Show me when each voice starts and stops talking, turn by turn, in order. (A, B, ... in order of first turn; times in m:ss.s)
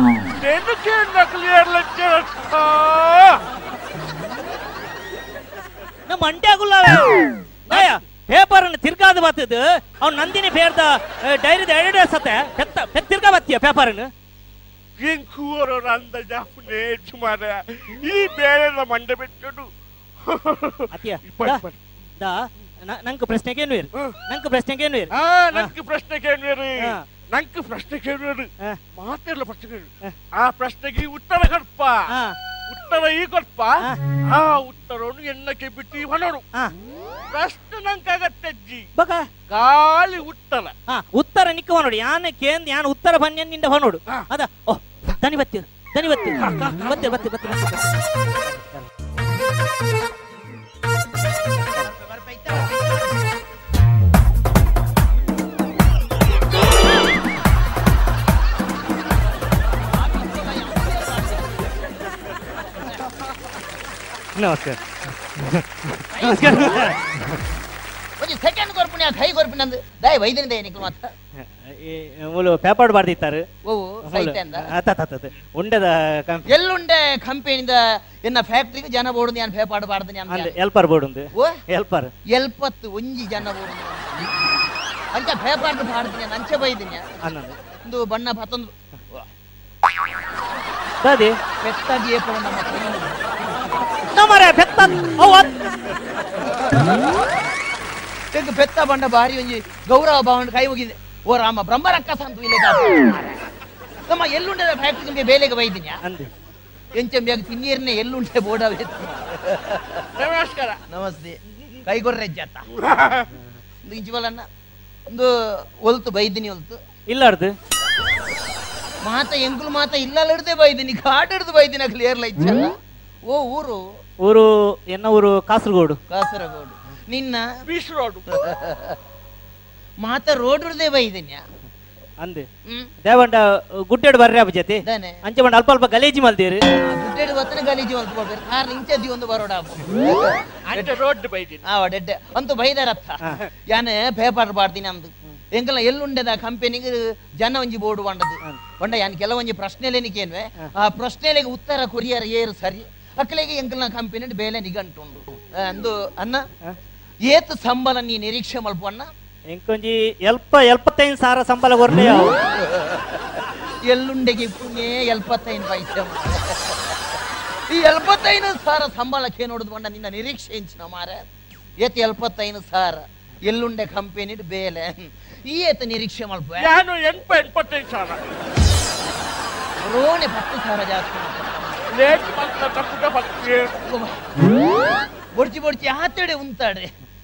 0:00.4-0:03.4 A
0:06.1-0:07.2 B
0:07.7-0:14.1 B
0:15.0-0:19.7 A
0:20.3-0:21.8 A
0:21.0-0:21.6 B
0:22.2-0:25.7 B
0:25.2-0:32.0 A
0:32.7-0:33.8 A
0:34.3-0:36.4 A
0:37.3-0:38.9 A
0:39.0-0:39.3 B
0:39.5-0:40.7 A
0:40.9-0:47.9 B
0:48.5-0:48.8 B
0:51.7-0:53.1 C
0:59.9-1:01.6 C
1:04.4-1:04.8 B
1:05.5-1:06.9 B
1:06.1-1:06.9 C
1:08.2-1:11.1 C
1:11.6-1:13.4 B
1:13.7-1:14.6 C
1:14.1-1:16.4 B
1:16.5-1:20.5 C
1:20.3-1:22.1 B
1:22.3-1:24.4 C
1:25.1-1:27.0 C
1:27.2-1:27.6 B
1:27.9-1:29.2 C
1:31.0-1:31.4 B
1:31.6-1:33.1 C
1:34.1-1:35.5 B
1:38.3-1:43.4 C
1:44.1-1:46.0 C
1:46.0-1:46.3 B
1:46.9-1:50.0 C
1:50.2-1:50.8 A
1:50.9-1:52.7 C
1:52.8-1:53.3 A
1:53.9-1:54.5 C
1:55.1-1:56.8 C
1:57.1-1:57.5 B
1:59.0-2:02.7 C
2:03.3-2:03.8 C
2:04.2-2:06.0 B
2:06.1-2:07.4 C
2:07.7-2:08.2 A
2:08.3-2:09.0 C
2:10.0-2:11.4 C
2:13.0-2:16.6 B
2:14.8-2:15.2 C
2:16.8-2:20.9 C
2:20.7-2:21.6 A
2:21.6-2:23.2 C
2:23.7-2:36.4 C
2:37.3-2:39.1 C
2:39.5-2:42.4 B
2:42.6-2:47.2 C
2:47.7-2:51.2 C
2:51.8-2:56.7 C
2:56.6-2:58.2 A
2:59.8-3:01.8 C
3:01.9-3:03.7 A
3:03.8-3:04.2 C
3:05.4-3:06.9 C